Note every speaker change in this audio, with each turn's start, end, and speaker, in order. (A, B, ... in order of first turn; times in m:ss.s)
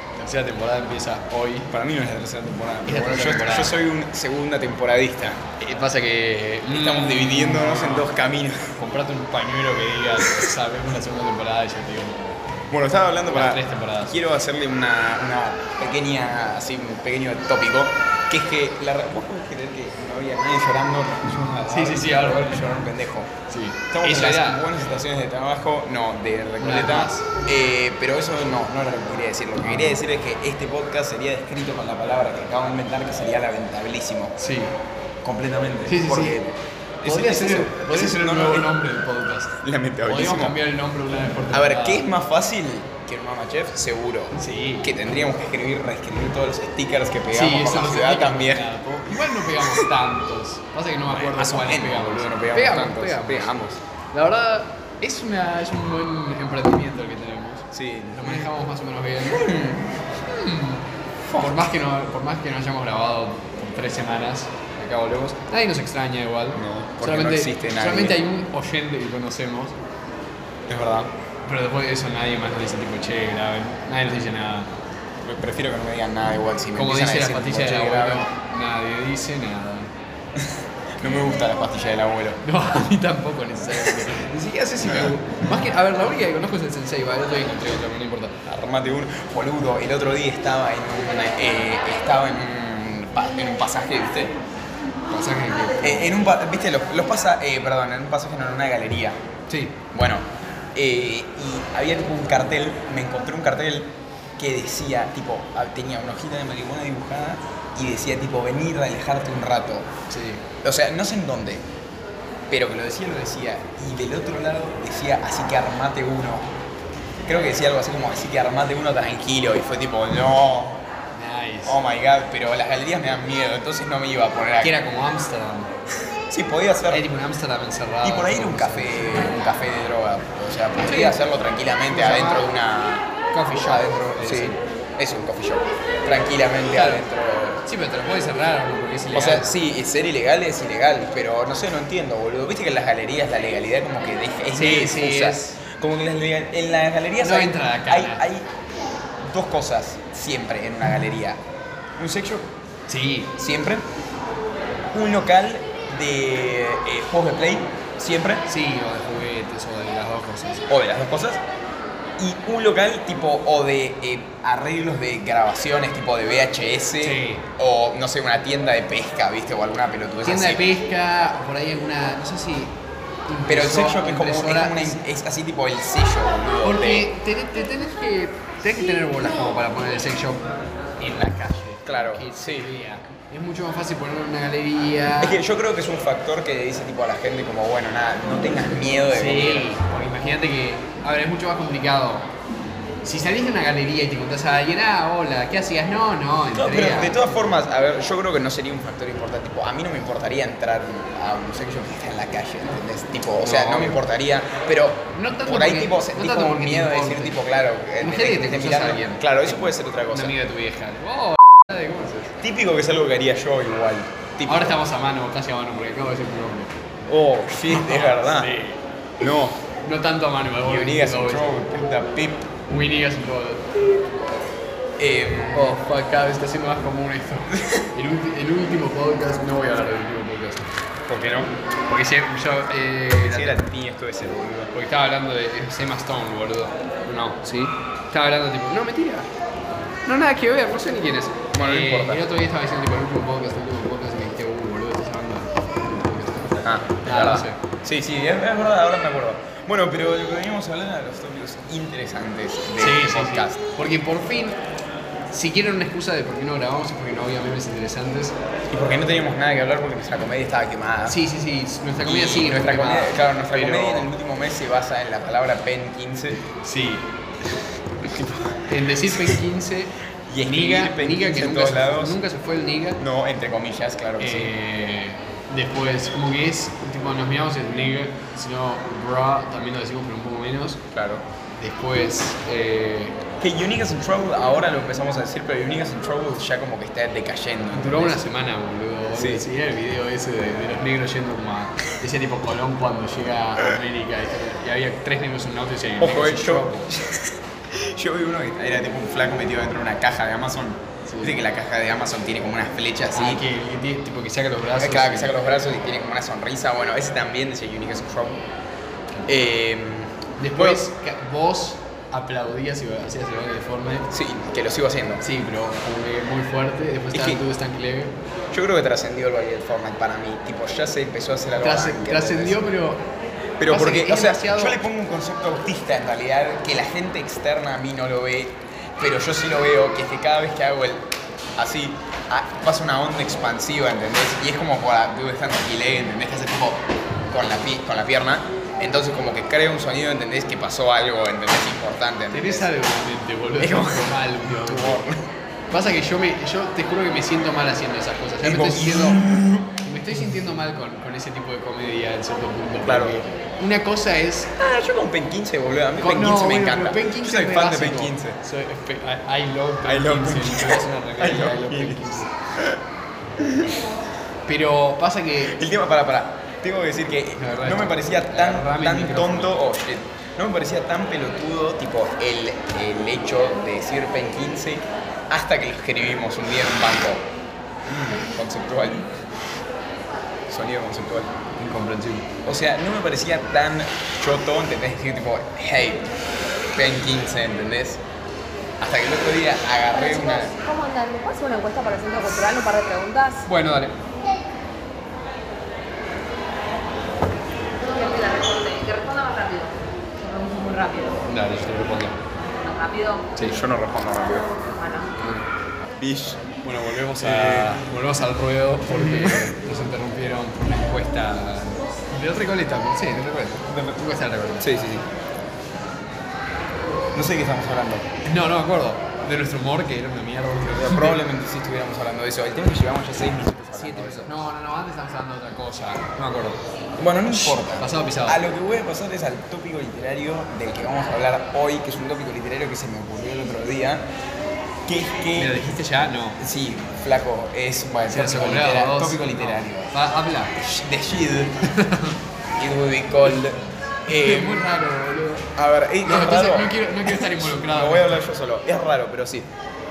0:00.2-0:01.7 A
0:01.7-0:05.4 B
0:02.8-0:03.8 A
0:05.6-0:08.1 A
0:06.7-0:08.7 B
0:08.8-0:12.4 A
0:12.7-0:23.3 B
0:13.3-0:14.2 A
0:21.6-0:22.8 A
0:23.5-0:24.7 A
0:23.9-0:34.3 B
0:26.6-0:27.3 A
0:29.6-0:29.9 A
0:34.4-0:34.7 A
0:35.2-0:38.8 B
0:35.9-0:36.4 A
0:37.0-0:39.5 A
0:39.6-0:40.6 B
0:40.0-0:42.0 A
0:41.5-0:48.7 B
0:44.3-0:44.9 A
0:47.3-0:53.5 A
0:51.1-0:53.8 B
0:54.1-0:59.4 A
0:57.7-0:58.5 B
0:59.2-1:00.0 B
1:00.3-1:00.8 A
1:01.2-1:01.7 B
1:01.4-1:09.8 A
1:06.5-1:08.2 B
1:10.7-1:11.1 B
1:11.4-1:14.7 A
1:15.2-1:18.3 B
1:16.7-1:19.9 A
1:20.4-1:22.4 B
1:22.4-1:28.3 A
1:23.7-1:24.2 B
1:24.8-1:25.2 B
1:28.4-1:34.3 B
1:35.1-1:36.2 A
1:35.8-1:39.2 B
1:39.5-1:39.8 A
1:39.9-1:49.9 B
1:50.1-1:50.4 A
1:50.6-1:51.6 B
1:52.5-1:56.5 B
1:57.2-2:00.8 B
2:01.1-2:01.8 A
2:01.6-2:04.7 B
2:04.6-2:05.7 A
2:06.3-2:07.0 B
2:06.9-2:09.3 A
2:08.0-2:17.6 B
2:10.8-2:11.2 A
2:11.9-2:12.5 A
2:13.3-2:14.6 A
2:16.7-2:17.0 A
2:17.6-2:19.5 A
2:19.1-2:28.5 B
2:24.5-2:25.6 A
2:27.2-2:28.2 A
2:29.2-2:31.4 B
2:32.0-2:32.5 B
2:32.9-2:33.3 A
2:33.4-2:33.8 B
2:34.9-2:38.4 B
2:38.4-2:40.6 A
2:40.7-2:41.4 B
2:42.2-2:50.7 B
2:47.0-2:47.4 A
2:50.2-2:52.7 A
2:53.3-2:55.0 A
2:53.5-2:57.1 B
2:56.6-3:00.4 A
3:01.0-3:05.4 A
3:01.8-3:02.7 B
3:05.2-3:09.7 B
3:09.1-3:12.3 A
3:13.0-3:17.2 A
3:16.5-3:30.3 B
3:23.4-3:24.0 A
3:25.1-3:27.4 A
3:28.0-3:32.4 A
3:32.4-3:34.8 B
3:34.4-3:36.7 A
3:37.1-3:38.5 B
3:37.7-3:38.8 A
3:39.2-3:39.6 B
3:39.8-3:41.5 A
3:40.6-3:42.5 B
3:42.7-3:43.8 A
3:45.0-3:45.8 B
3:45.5-3:50.7 A
3:51.1-3:51.5 B
3:51.9-3:53.6 A
3:53.2-3:54.7 B
3:54.7-3:59.3 A
4:00.0-4:07.6 A
4:01.5-4:02.2 B
4:06.6-4:13.6 B
4:12.8-4:14.6 A
4:15.3-4:18.4 A
4:18.7-4:21.2 B
4:21.0-4:24.1 A
4:22.0-4:26.4 B
4:26.4-4:27.6 A
4:28.1-4:29.4 B
4:28.6-4:33.0 A
4:30.3-4:32.2 B
4:33.0-4:34.5 B
4:34.2-4:40.8 A
4:40.9-4:41.2 B
4:41.6-4:43.2 A
4:43.4-4:48.3 B
4:47.7-4:56.9 A
4:49.1-4:49.4 B
4:56.0-5:03.4 B
5:01.0-5:01.4 A
5:03.1-5:05.4 A
5:04.8-5:08.4 B
5:09.3-5:10.8 B
5:10.4-5:14.1 A
5:14.1-5:15.2 B
5:15.2-5:18.1 A
5:17.1-5:17.4 B
5:18.5-5:22.6 B
5:21.6-5:23.0 A
5:23.6-5:42.7 B
5:23.6-5:24.8 A
5:42.3-5:45.0 A
5:43.6-5:45.3 B
5:45.7-5:49.2 A
5:48.4-5:49.8 B
5:49.8-5:54.5 A
5:52.8-5:53.2 B
5:54.6-5:58.4 B
5:56.0-6:02.3 A
5:59.8-6:02.8 B
6:03.4-6:03.8 B
6:04.4-6:05.6 A
6:05.4-6:17.2 B
6:07.4-6:09.6 A
6:17.9-6:19.1 B
6:20.5-6:21.3 B
6:21.6-6:22.3 A
6:22.4-6:26.1 B
6:26.7-6:28.0 B
6:28.8-6:30.5 B
6:30.1-6:33.4 C
6:33.4-6:33.9 A
6:37.8-6:41.2 C
6:41.2-6:42.2 A
6:42.6-6:43.3 C
6:43.3-6:43.6 A
6:43.4-6:44.5 B
6:44.6-6:45.1 C
6:45.2-6:45.5 A
6:46.0-6:47.8 B
6:46.6-6:55.0 A
6:48.9-6:49.5 B
6:53.7-6:54.0 B
6:54.6-6:55.0 B
6:57.1-6:58.0 B
6:58.2-7:01.2 A
7:00.6-7:04.3 B
7:03.7-7:06.6 A
7:07.0-7:14.0 B
7:07.3-7:08.4 A
7:14.8-7:15.6 B
7:15.4-7:16.4 A
7:16.4-7:19.9 B
7:18.0-7:20.5 A
7:20.6-7:21.6 B
7:21.6-7:22.2 A
7:22.6-7:24.7 B
7:24.1-7:25.5 A
7:25.5-7:29.5 B
7:26.0-7:28.2 A